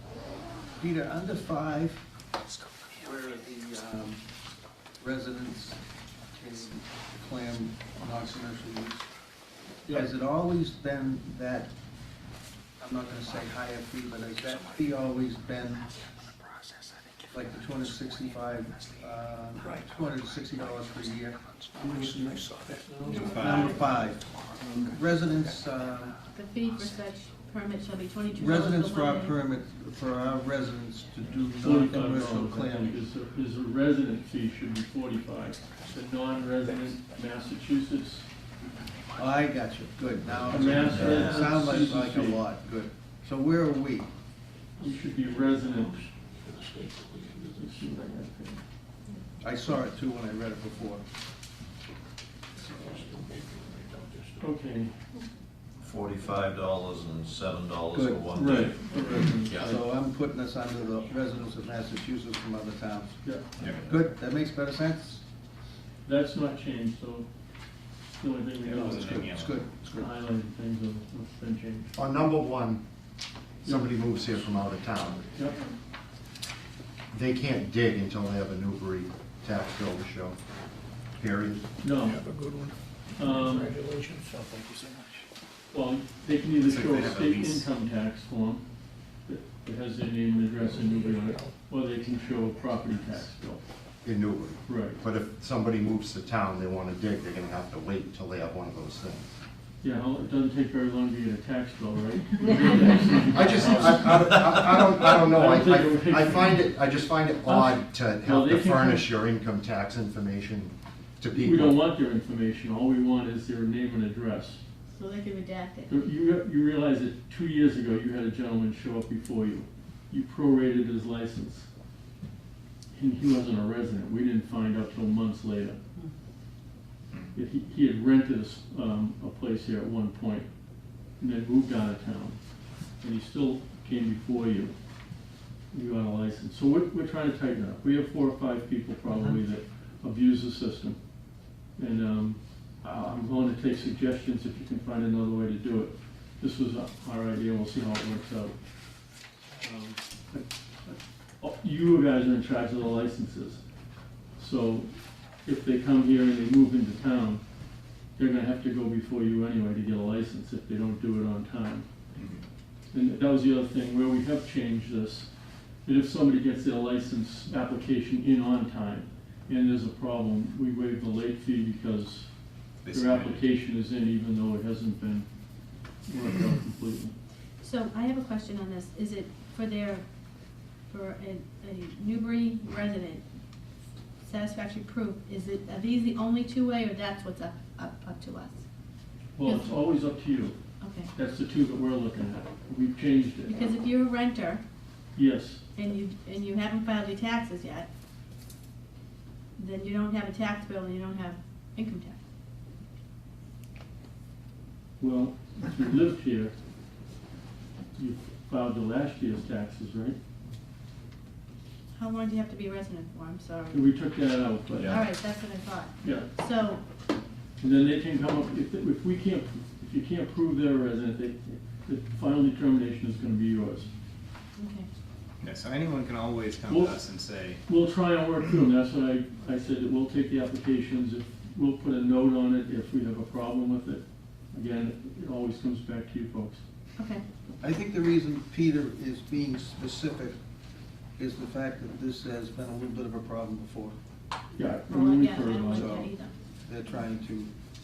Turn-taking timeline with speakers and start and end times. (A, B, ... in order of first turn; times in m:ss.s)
0:00.8-0:02.0 A
0:03.0-0:04.2 A
0:05.0-0:05.8 A
0:06.4-0:09.1 A
0:09.8-0:11.7 A
0:12.8-0:15.8 A
0:14.5-0:14.9 B
0:17.3-0:21.4 A
0:17.3-0:26.1 B
0:22.7-0:23.7 C
0:23.0-0:23.8 D
0:23.1-0:23.6 E
0:23.3-0:24.3 A
0:24.8-0:26.2 A
0:26.3-0:29.4 D
0:26.8-0:27.4 B
0:28.3-0:33.0 A
0:31.2-0:33.1 B
0:31.6-0:38.3 C
0:35.5-0:37.0 B
0:39.2-0:44.1 A
0:40.2-0:41.6 F
0:40.5-0:42.4 C
0:40.6-0:41.4 G
0:44.8-0:46.1 C
0:44.8-0:48.2 B
0:47.6-0:48.6 C
0:49.4-0:51.0 A
0:52.5-0:54.7 B
0:54.4-0:54.9 C
0:55.8-0:59.8 F
0:57.9-0:58.6 A
0:58.3-0:59.8 C
0:58.6-0:59.4 B
0:59.5-1:05.2 A
1:01.0-1:01.3 B
1:03.2-1:03.5 C
1:03.6-1:04.1 F
1:06.0-1:07.3 C
1:08.2-1:09.2 C
1:08.6-1:10.1 A
1:08.6-1:09.6 E
1:10.0-1:12.0 C
1:11.9-1:12.8 G
1:13.6-1:14.5 C
1:13.6-1:15.3 G
1:15.3-1:15.6 C
1:17.1-1:20.4 G
1:21.2-1:21.7 G
1:21.8-1:22.2 C
1:22.0-1:25.2 B
1:23.2-1:23.8 C
1:25.7-1:28.6 C
1:26.6-1:27.7 E
1:29.2-1:33.6 C
1:30.5-1:31.6 B
1:32.2-1:33.2 B
1:34.0-1:39.2 G
1:34.6-1:35.0 C
1:39.8-1:46.7 C
1:43.3-1:51.8 G
1:47.4-1:49.1 C
1:51.3-1:54.6 C
1:54.9-1:55.9 D
1:55.9-2:01.7 C
2:02.9-2:05.8 C
2:07.3-2:10.5 C
2:11.2-2:12.4 C
2:13.0-2:14.7 C
2:15.7-2:21.0 C
2:21.8-2:28.6 C
2:29.6-2:33.6 C
2:34.4-2:34.9 C
2:35.4-2:37.4 C
2:38.2-2:41.9 C
2:42.9-2:45.3 C
2:45.8-2:52.3 C
2:52.8-2:53.4 E
2:52.9-2:55.3 C
2:56.0-2:57.1 C
2:57.6-3:00.0 D
3:00.9-3:03.2 D
3:04.2-3:08.6 D
3:09.3-3:13.7 C
3:09.4-3:09.7 D
3:10.8-3:11.1 D
3:13.5-3:14.6 D
3:15.2-3:15.6 C
3:15.7-3:17.9 D
3:19.6-3:22.2 D
3:25.0-3:26.5 C
3:28.0-3:30.2 C
3:31.9-3:33.8 D
3:33.7-3:35.0 C
3:34.7-3:35.0 F
3:34.8-3:36.8 D
3:36.0-3:36.3 C
3:37.6-3:43.9 C
3:44.6-3:44.9 D
3:45.4-3:47.6 E
3:46.6-3:56.6 C
3:57.0-3:57.2 D
3:57.6-4:00.4 A
4:01.2-4:04.0 A
4:04.5-4:06.1 C
4:04.9-4:06.3 D
4:05.7-4:06.1 A
4:06.6-4:07.5 A